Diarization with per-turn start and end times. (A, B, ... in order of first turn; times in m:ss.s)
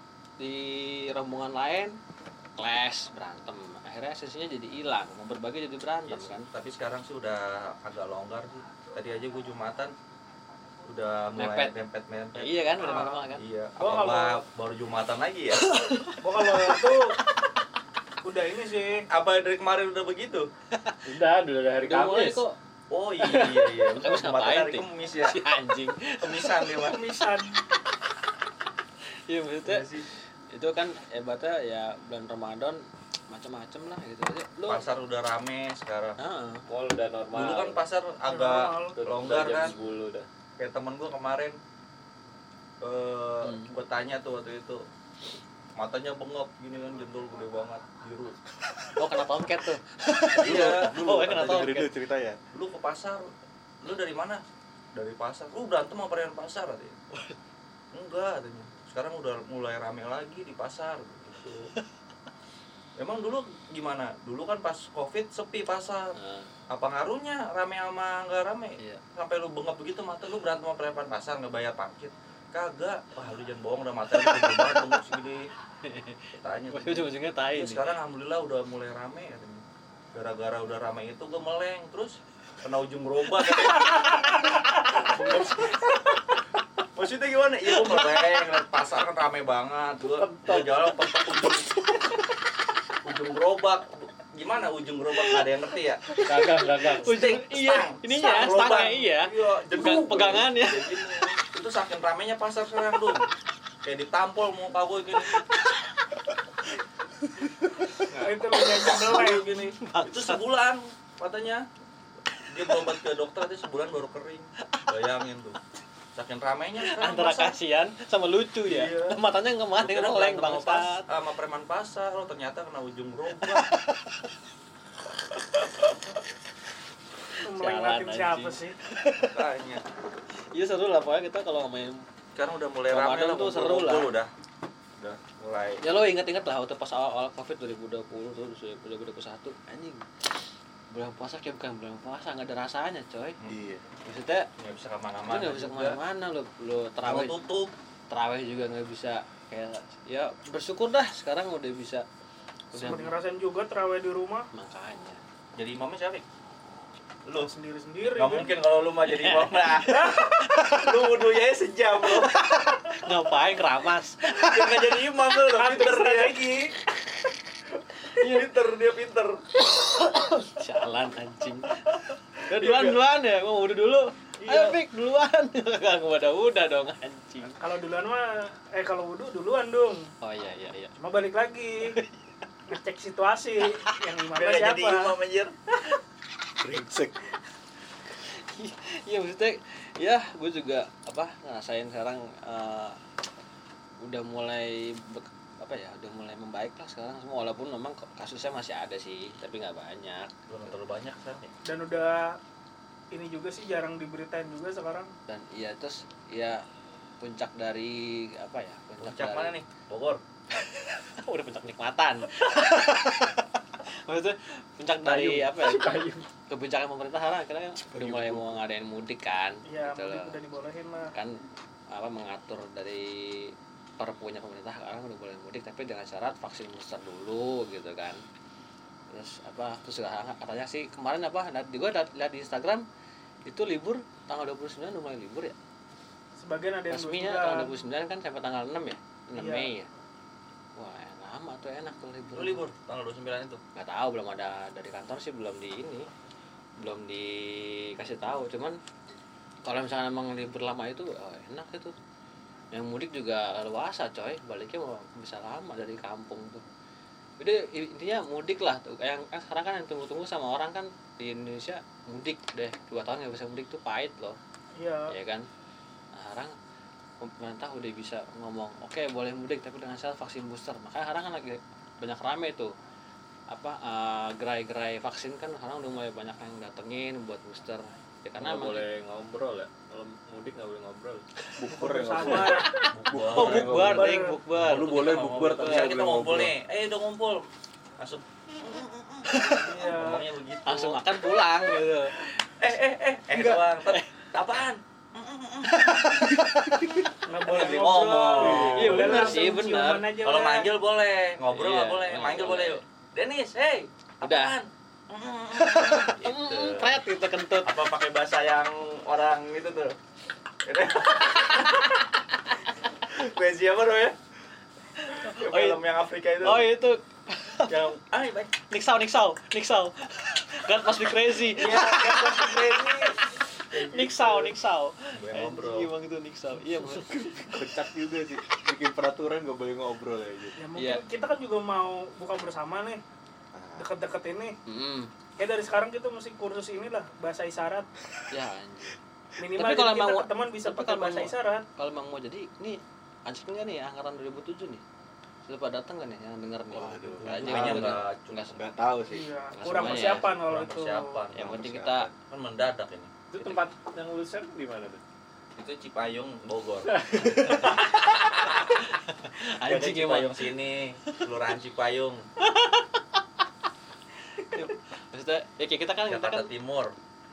0:00.4-0:02.0 A
0:02.6-0:06.5 A
0:06.1-0:09.9 B
0:10.9-0:15.8 B
0:11.4-0:11.7 A
0:12.4-0:13.4 A
0:12.8-0:13.2 C
0:13.8-0:14.4 C
0:15.7-0:16.6 A
0:16.2-0:17.2 C
0:18.2-0:19.1 C
0:19.1-0:20.5 B
0:20.7-0:21.0 A
0:21.1-0:22.4 D
0:21.8-0:22.6 A
0:22.9-0:25.4 B
0:23.2-0:26.7 A
0:26.2-0:27.4 B
0:27.1-0:27.5 C
0:29.3-0:34.9 A
0:29.6-0:30.1 B
0:34.7-0:36.2 B
0:36.2-0:36.6 A
0:36.7-0:37.8 D
0:37.3-0:39.7 B
0:38.3-0:39.0 C
0:39.0-0:40.3 D
0:40.6-0:41.6 B
0:42.8-0:44.8 B
0:43.4-0:43.7 A
0:45.8-0:48.4 B
0:49.0-0:51.9 A
0:50.4-0:51.8 B
0:50.4-0:52.4 E
0:52.5-0:53.3 B
0:53.8-0:54.4 B
0:54.9-0:57.0 B
0:57.9-1:01.7 B
1:03.0-1:06.2 B
1:06.2-1:06.5 A
1:06.7-1:15.5 B
1:15.8-1:17.8 A
1:16.4-1:19.6 B
1:20.1-1:25.6 B
1:25.0-1:25.7 A
1:27.0-1:31.7 B
1:27.8-1:28.5 A
1:31.8-1:32.2 A
1:33.0-1:36.0 B
1:35.2-1:35.4 A
1:36.1-1:41.3 A
1:36.2-1:37.2 D
1:36.9-1:43.3 B
1:43.8-1:45.4 B
1:45.4-1:45.8 A
1:48.1-1:51.7 B
1:48.2-1:49.8 C
1:48.8-1:50.4 A
1:52.5-1:55.6 B
1:56.2-1:57.5 B
1:56.8-2:01.1 A
1:58.6-1:59.2 B
1:59.8-2:03.7 B
2:03.5-2:03.9 A
2:07.4-2:09.3 A
2:07.4-2:08.8 C
2:09.2-2:09.8 B
2:10.5-2:12.1 A
2:12.4-2:14.3 B
2:12.9-2:14.1 A
2:15.0-2:15.8 B
2:15.8-2:20.4 A
2:20.9-2:23.4 A
2:23.5-2:23.8 E
2:24.0-2:24.5 A
2:24.6-2:26.0 B
2:25.3-2:27.4 A
2:27.0-2:27.7 B
2:28.1-2:32.1 A
2:32.7-2:33.1 A
2:32.7-2:33.1 B
2:32.8-2:34.5 C
2:34.5-2:35.2 A
2:35.6-2:36.2 B
2:37.4-2:38.5 C
2:38.1-2:42.5 B
2:39.1-2:41.1 A
2:42.1-2:44.8 A
2:44.2-2:46.4 B
2:45.5-2:46.7 C
2:48.0-2:48.5 A
2:48.0-2:49.4 B
2:49.6-2:51.9 A
2:52.5-2:57.6 A
2:52.6-2:52.9 B
2:57.6-3:00.1 C
3:00.2-3:00.9 A
3:01.0-3:01.9 C
3:02.7-3:05.2 C
3:04.4-3:05.5 B
3:06.6-3:07.2 E
3:08.2-3:13.0 A
3:14.0-3:20.3 A
3:20.5-3:21.5 B
3:21.6-3:22.4 C
3:23.1-3:25.1 C
3:25.3-3:26.6 A
3:27.2-3:29.6 A
3:29.0-3:30.2 B
3:30.6-3:33.5 A
3:34.1-3:36.0 A
3:35.0-3:36.3 D
3:36.5-3:40.4 A
3:37.9-3:38.6 E
3:39.7-3:41.1 C
3:41.9-3:48.2 A
3:49.1-3:52.8 A
3:53.5-3:55.6 A
3:56.4-3:57.7 C
3:56.9-3:59.9 A
3:59.4-3:59.7 C
4:00.8-4:02.6 A
4:02.3-4:03.6 B
4:03.8-4:06.1 A
4:06.8-4:08.8 A
4:09.7-4:11.9 A
4:12.7-4:16.6 A
4:17.4-4:24.4 A
4:24.8-4:25.2 C
4:25.1-4:25.5 A
4:26.1-4:26.5 A
4:27.2-4:32.7 A
4:33.5-4:38.9 A
4:38.4-4:41.2 D
4:41.6-4:46.5 E
4:41.8-4:42.7 C
4:42.2-4:45.8 A
4:42.9-4:43.8 B
4:43.6-4:44.4 C
4:44.5-4:47.4 B
4:48.0-4:51.0 B
4:49.6-4:50.2 C
4:50.7-4:52.2 A
4:52.6-4:56.1 B
4:53.4-4:54.1 A
4:55.6-4:57.1 A
4:56.7-4:57.0 E
4:57.3-5:00.7 C
4:57.4-4:59.6 B
4:58.5-5:00.1 A
5:00.2-5:07.0 B
5:01.5-5:02.8 A
5:04.2-5:04.6 A
5:05.6-5:07.8 A
5:07.6-5:10.0 B
5:10.7-5:12.2 B
5:13.0-5:14.2 B
5:15.0-5:16.7 B
5:15.1-5:15.8 A
5:16.4-5:17.7 A
5:17.7-5:18.5 B
5:18.7-5:27.6 A
5:21.6-5:23.1 B
5:22.0-5:23.1 C
5:23.7-5:24.5 B
5:25.2-5:25.9 B
5:27.5-5:30.6 E
5:30.6-5:33.0 C
5:30.8-5:31.0 A
5:33.5-5:33.9 E
5:33.8-5:34.6 C
5:34.7-5:35.1 A
5:35.4-5:37.9 C
5:38.3-5:39.0 A
5:39.4-5:41.6 C
5:39.5-5:44.8 A
5:45.5-5:48.6 A
5:46.7-5:48.0 E
5:47.2-5:48.6 B
5:48.6-5:49.3 E
5:49.1-5:51.2 C
5:49.5-5:50.3 A
5:49.7-5:51.6 B
5:51.3-5:52.1 A
5:51.4-5:52.1 E
5:52.1-5:53.6 B
5:53.3-5:55.0 D
5:55.6-5:58.9 B
5:56.9-5:57.7 D
5:57.5-6:00.5 A
5:59.7-6:02.2 B
6:02.4-6:03.0 A
6:04.4-6:06.5 A
6:06.1-6:06.9 B